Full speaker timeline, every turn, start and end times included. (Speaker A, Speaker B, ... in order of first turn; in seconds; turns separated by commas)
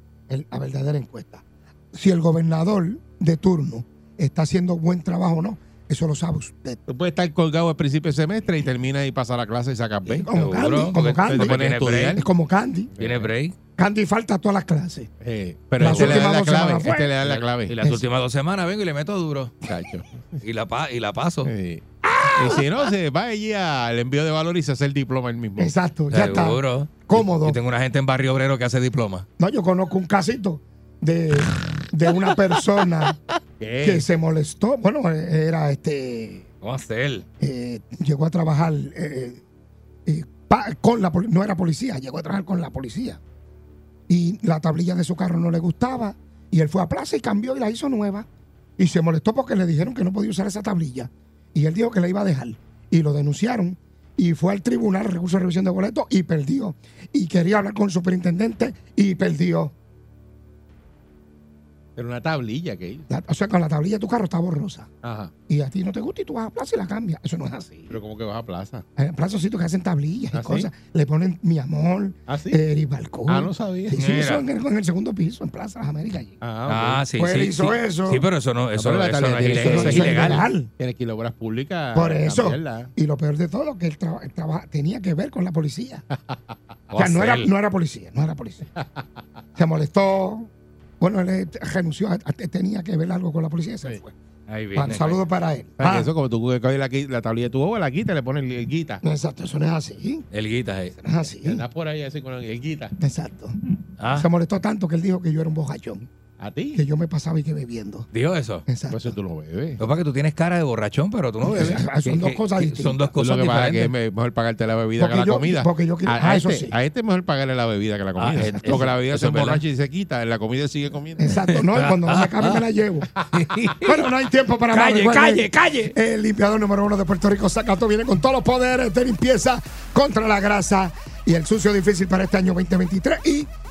Speaker A: 0.3-6.8, Speaker B: 6.9-10.3, Speaker A: 10.1-11.6, Speaker C: 10.3-12.2, Speaker B: 11.2-12.2, Speaker A: 12.1-12.9, Speaker B: 13.0-13.3, Speaker C: 13.0-13.6, Speaker A: 13.8-15.1, Speaker B: 15.2-17.8, Speaker A: 15.8-17.2, Speaker C: 15.8-16.3, Speaker C: 17.2-19.6, Speaker B: 19.7-20.2, Speaker C: 20.4-21.5, Speaker B: 21.4-25.7, Speaker A: 22.1-22.6, Speaker A: 25.6-27.6, Speaker C: 26.1-29.2, Speaker A: 29.4-33.2, Speaker B: 33.6-34.0, Speaker A: 33.8-36.5, Speaker C: 36.6-37.2, Speaker A: 37.4-39.4, Speaker A: 40.1-43.2, Speaker A: 44.1-48.3, Speaker A: 48.8-59.7, Speaker B: 62.0-63.1, Speaker A: 63.1-64.9, Speaker B: 65.0-65.3, Speaker A: 65.5-68.0, Speaker B: 67.9-68.8, Speaker A: 69.0-76.4, Speaker B: 70.3-70.7, Speaker B: 72.3-72.6, Speaker B: 73.3-74.0, Speaker C: 74.0-74.5, Speaker B: 76.4-77.0, Speaker C: 76.7-80.5, Speaker A: 77.2-78.2, Speaker B: 78.7-82.9, Speaker A: 79.5-80.7, Speaker A: 81.9-86.0, Speaker C: 86.9-87.5, Speaker A: 87.0-88.6, Speaker B: 88.8-89.0, Speaker A: 89.6-94.1, Speaker C: 94.5-95.2, Speaker A: 94.7-96.1, Speaker B: 95.8-99.0, Speaker A: 99.0-100.2, Speaker C: 100.3-101.0, Speaker A: 101.0-101.6, Speaker B: 101.4-102.9, Speaker A: 103.0-103.5, Speaker C: 104.0-104.3, Speaker A: 104.1-106.0, Speaker B: 106.4-106.8, Speaker A: 106.7-108.1, Speaker C: 108.1-108.6, Speaker A: 108.7-109.1, Speaker B: 108.9-109.8, Speaker C: 109.8-113.9, Speaker A: 111.4-113.1, Speaker B: 113.2-121.3, Speaker A: 115.0-116.7, Speaker C: 118.2-119.6, Speaker A: 118.4-118.8, Speaker A: 121.2-123.1, Speaker C: 121.3-122.6, Speaker C: 123.3-124.1, Speaker A: 123.8-133.5, Speaker C: 124.7-125.9